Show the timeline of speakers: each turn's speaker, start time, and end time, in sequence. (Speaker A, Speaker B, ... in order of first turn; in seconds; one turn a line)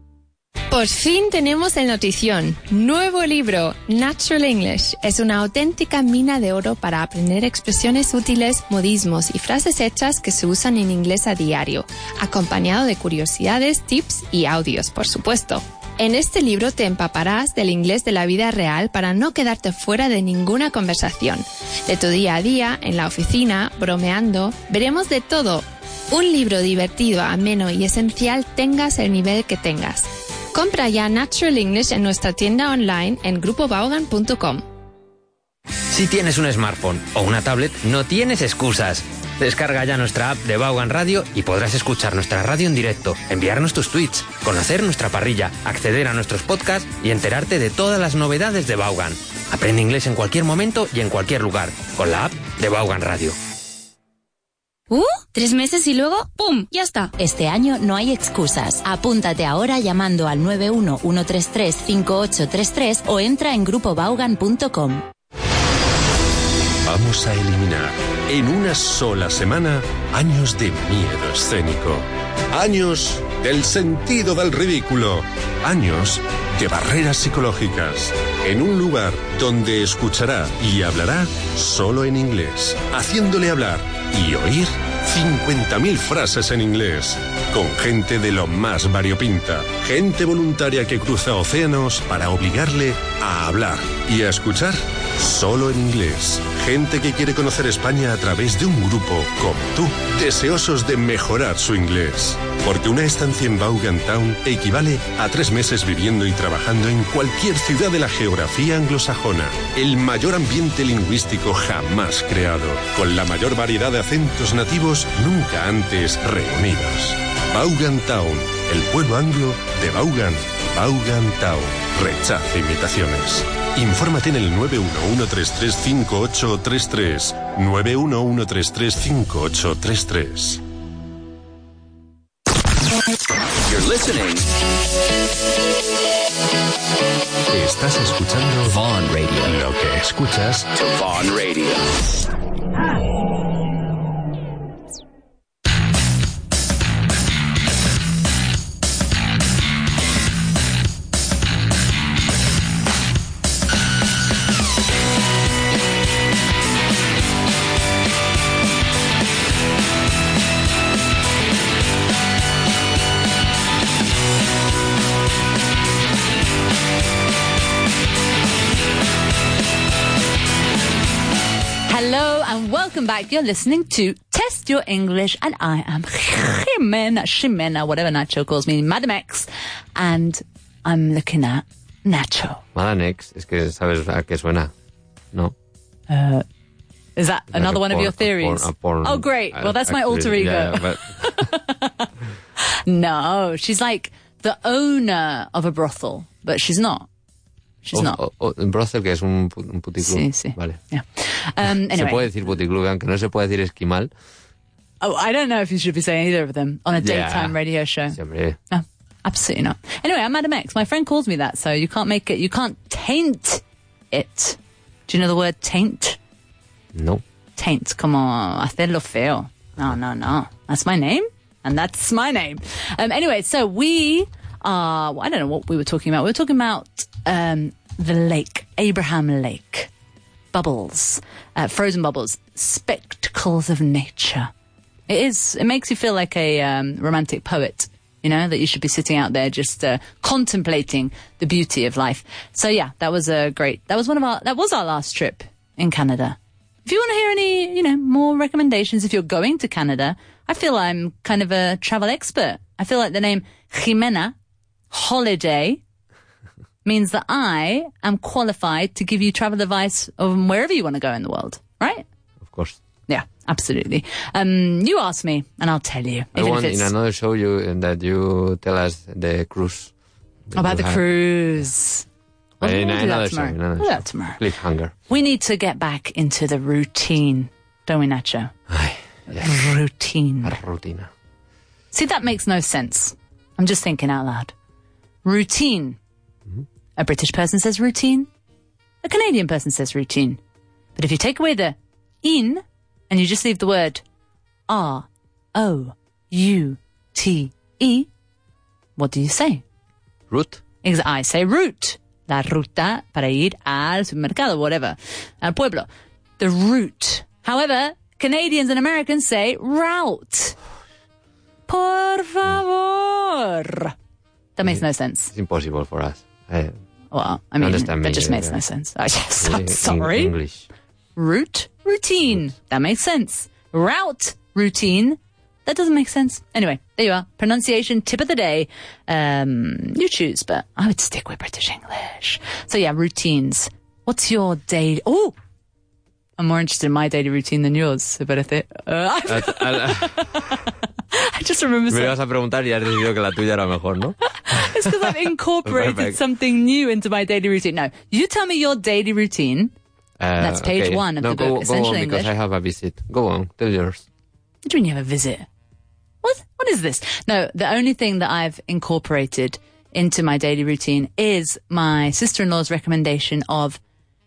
Speaker A: 0.7-34.6
Speaker B: 35.9-53.4
Speaker C: 54.9-57.1
Speaker D: 57.2-65.1
Speaker E: 66.8-130.6
Speaker F: 133.6-134.5
Speaker E: 137.5-138.8
Speaker F: 138.7-139.5
Speaker E: 139.4-140.7
Speaker F: 140.7-141.8
Speaker G: 171.9-182.6
Speaker B: 182.7-184.7
Speaker G: 186.1-186.4
Speaker G: 187.2-197.1
Speaker B: 187.5-191.5
Speaker G: 197.8-198.2
Speaker B: 197.9-200.8
Speaker G: 200.0-202.3
Speaker B: 201.7-204.1
Speaker G: 205.0-208.2
Speaker B: 206.9-208.6
Speaker G: 208.7-216.2
Speaker B: 216.9-217.2
Speaker G: 217.6-229.9
Speaker G: 230.5-234.5
Speaker G: 235.1-254.3
Speaker G: 254.9-255.8
Speaker G: 256.9-262.1
Speaker B: 262.4-262.8
Speaker G: 263.1-266.9
Speaker B: 266.4-269.9
Speaker B: 270.5-271.0
Speaker G: 270.6-272.1
Speaker G: 272.6-274.4
Speaker B: 272.6-274.9
Speaker G: 275.1-278.5
Speaker B: 278.7-279.6
Speaker G: 279.3-280.6
Speaker B: 280.4-281.1
Speaker G: 281.9-284.5
Speaker G: 285.2-286.0
Speaker G: 287.0-288.3
Speaker G: 289.0-290.4
Speaker G: 290.9-294.0
Speaker G: 294.7-298.1
Speaker G: 299.0-299.6
Speaker B: 300.3-300.6
Speaker G: 300.8-305.9
Speaker G: 306.4-310.6
Speaker G: 311.7-313.9
Speaker G: 314.6-315.3
Speaker B: 314.6-316.8
Speaker G: 317.1-320.4
Speaker B: 317.6-318.6
Speaker B: 319.4-320.7
Speaker G: 321.1-335.3
Speaker G: 336.4-342.1
Speaker B: 339.3-340.4
Speaker B: 341.9-345.1
Speaker G: 344.4-349.7
Speaker B: 345.6-346.2
Speaker B: 350.2-354.1
Speaker G: 350.4-352.3
Speaker G: 354.6-355.4
Speaker G: 356.2-363.8